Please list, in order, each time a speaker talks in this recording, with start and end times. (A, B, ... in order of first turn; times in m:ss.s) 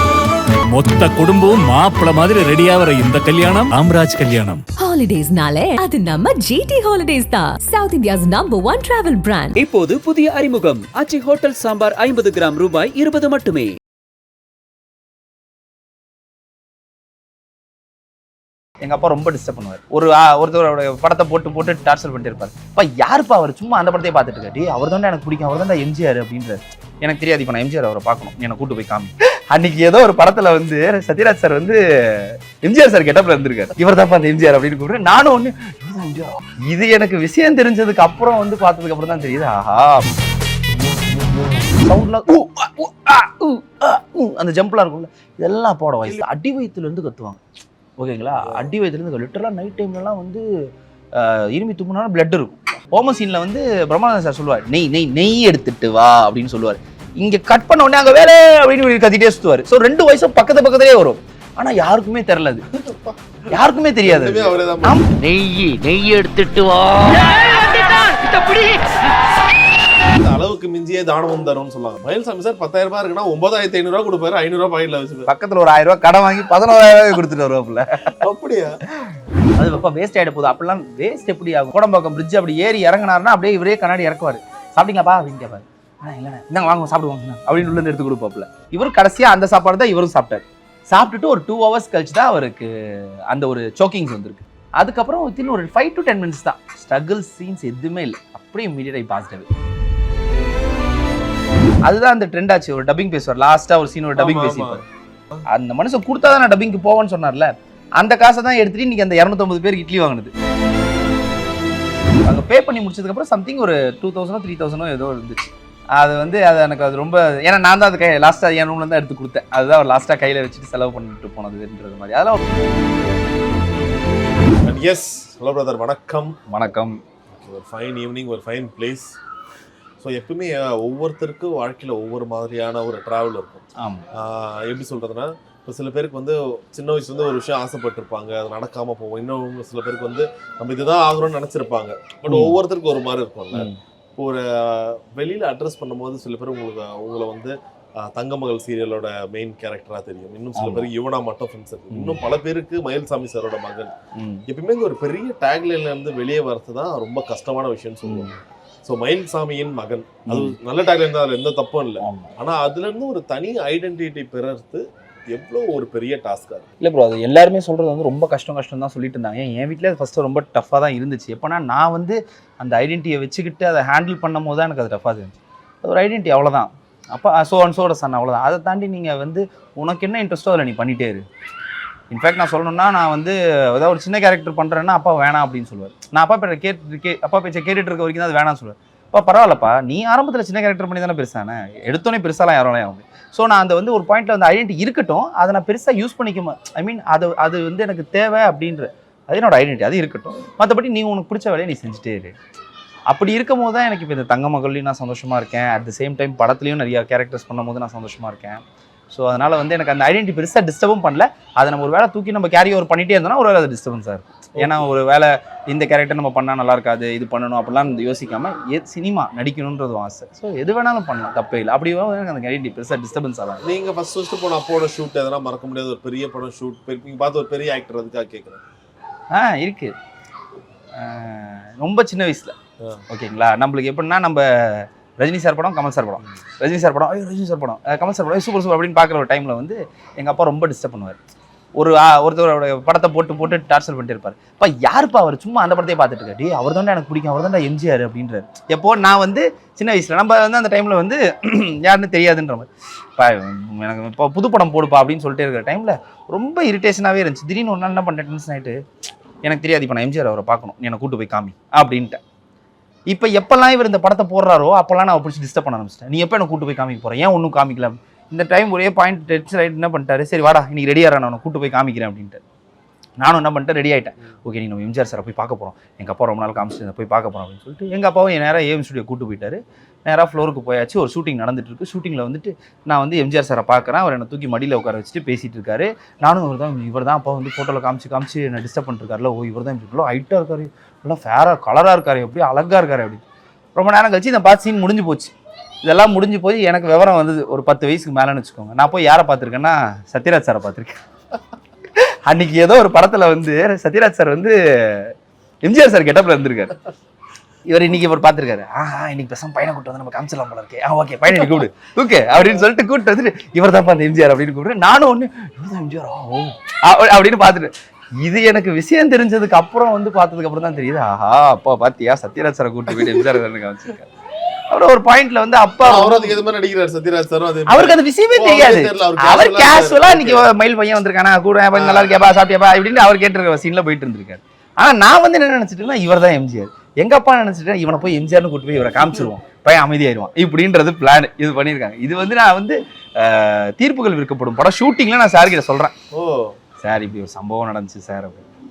0:00.7-0:04.6 A
0:04.8-0:09.5 B
0:09.6-0:13.7 C
0:18.8-0:40.2 D
0:41.7-0:47.4 D
0:48.0-0:50.4 D
0:48.4-0:48.7 E
0:51.2-1:02.6 D
1:02.7-1:03.2 E
1:03.5-1:05.1 D
1:04.0-1:05.0 E
1:05.2-1:09.0 F
1:10.2-1:15.3 E
1:15.3-1:18.2 D
1:18.2-1:18.8 E
1:19.6-1:39.5 D
1:41.8-1:44.8 D
1:44.2-1:45.4 E
1:45.5-1:50.3 D
1:52.2-2:02.9 D
2:04.6-2:06.4 E
2:06.5-2:07.0 D
2:07.3-2:09.1 E
2:10.0-2:33.9 E
2:13.8-2:14.0 D
2:22.3-2:22.6 D
2:23.5-2:23.8 D
2:30.6-2:30.9 D
2:31.9-2:32.2 D
2:34.2-2:34.4 D
2:34.5-2:46.7 E
2:38.1-2:38.4 D
2:40.3-2:40.6 D
2:42.0-2:42.3 D
2:46.8-3:01.2 D
3:02.1-3:22.4 D
3:23.1-3:43.6 D
3:34.6-3:34.9 E
3:43.6-3:48.6 E
3:49.3-3:49.9 D
3:51.0-3:52.6 D
3:53.1-4:01.2 D
4:01.8-4:18.8 D
4:19.4-4:22.2 D
4:23.1-4:32.4 D
4:33.2-4:53.2 D
4:53.8-5:01.0 D
5:02.0-5:06.8 D
5:07.7-5:24.1 D
5:22.9-5:23.4 E
5:24.7-5:26.4 D
5:25.8-5:30.5 E
5:27.7-5:45.9 D
5:31.7-5:32.1 E
5:46.1-5:46.6 E
5:46.8-5:48.4 D